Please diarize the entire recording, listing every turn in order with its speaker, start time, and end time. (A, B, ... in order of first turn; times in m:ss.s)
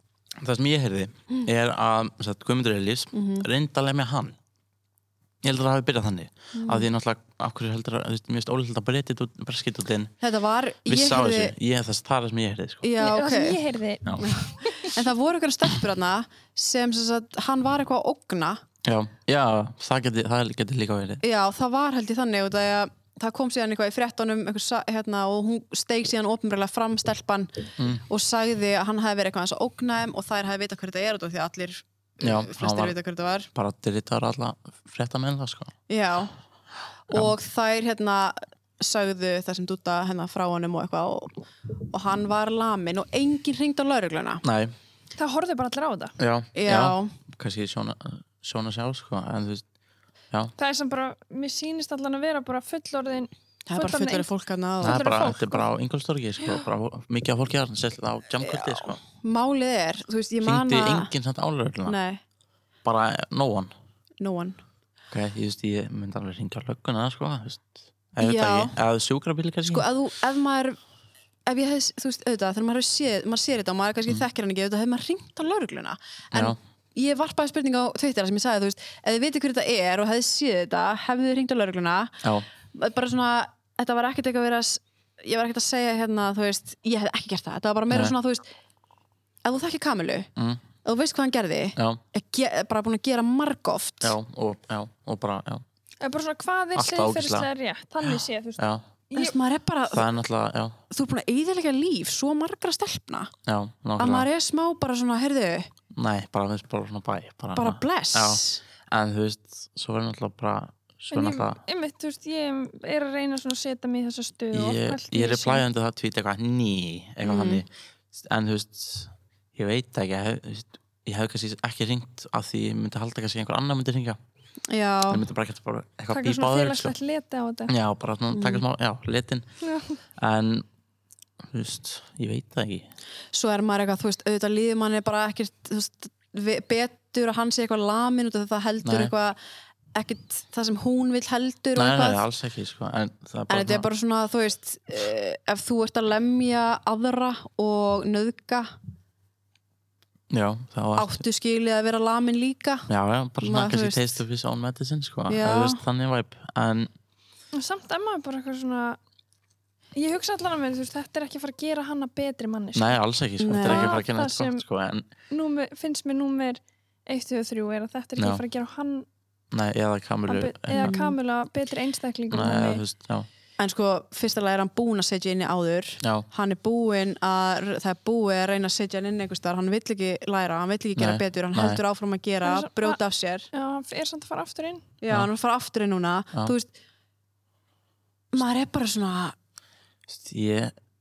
0:00.4-0:04.4 A
0:03.1-0:03.5 B
0:05.4-0:10.1 A
0:06.5-0:06.9 B
0:10.2-0:11.6 B
0:10.9-0:12.9 A
0:12.8-0:13.6 B
0:13.0-0:15.0 C
0:14.2-0:18.6 B
0:18.8-0:21.2 A
0:21.2-0:33.5 B
0:27.8-0:28.0 A
0:32.2-0:33.0 A
0:33.6-0:35.7 A
0:35.9-0:36.3 B
0:37.1-0:41.3 B
0:41.9-0:44.4 B
0:44.4-0:44.7 A
0:45.2-0:46.1 C
0:46.2-0:49.6 A
0:46.6-0:47.1 B
0:50.6-0:54.3 C
0:53.7-0:55.1 B
0:54.8-0:55.7 C
0:54.8-0:59.0 A
0:58.4-1:01.1 B
1:00.4-1:02.0 A
1:01.8-1:02.2 B
1:02.8-1:03.7 A
1:04.2-1:04.6 B
1:05.1-1:09.9 A
1:08.2-1:08.7 B
1:09.7-1:10.8 B
1:11.5-1:22.2 B
1:22.7-1:28.5 B
1:29.4-1:30.3 B
1:30.4-1:30.6 A
1:30.8-1:34.1 B
1:31.8-1:32.0 A
1:34.0-1:35.6 A
1:36.0-1:39.4 C
1:36.7-1:37.5 A
1:38.0-1:38.9 A
1:39.1-1:40.1 B
1:39.9-1:40.8 A
1:40.9-1:43.3 B
1:43.4-1:44.3 A
1:44.0-1:45.7 B
1:45.9-1:51.6 A
1:47.6-1:48.6 B
1:51.1-1:55.6 C
1:54.5-2:04.2 A
1:57.2-1:57.6 B
2:04.7-2:05.2 B
2:05.1-2:06.9 A
2:06.1-2:07.7 C
2:07.7-2:09.4 A
2:08.3-2:08.6 B
2:09.6-2:10.0 C
2:10.2-2:10.6 A
2:11.4-2:12.9 A
2:13.3-2:19.4 B
2:18.8-2:19.1 A
2:19.9-2:22.2 B
2:21.7-2:23.9 A
2:23.5-2:28.7 B
2:30.3-2:31.2 A
2:31.0-2:32.9 B
2:32.9-2:36.9 A
2:33.4-2:34.2 B
2:35.3-2:35.8 B
2:37.5-2:39.0 C
2:39.9-2:43.0 C
2:42.7-2:45.1 A
2:43.4-2:44.0 B
2:43.6-2:44.6 C
2:45.3-2:49.1 C
2:48.2-2:48.4 A
2:49.5-2:50.9 A
2:50.3-2:52.8 C
2:50.7-2:51.1 B
2:52.3-2:53.3 A
2:53.6-3:03.5 B
2:56.0-2:56.3 A
3:01.0-3:01.8 A
3:02.4-3:03.0 C
3:03.5-3:04.9 C
3:05.0-3:06.7 B
3:08.3-3:09.4 B
3:10.1-3:10.7 A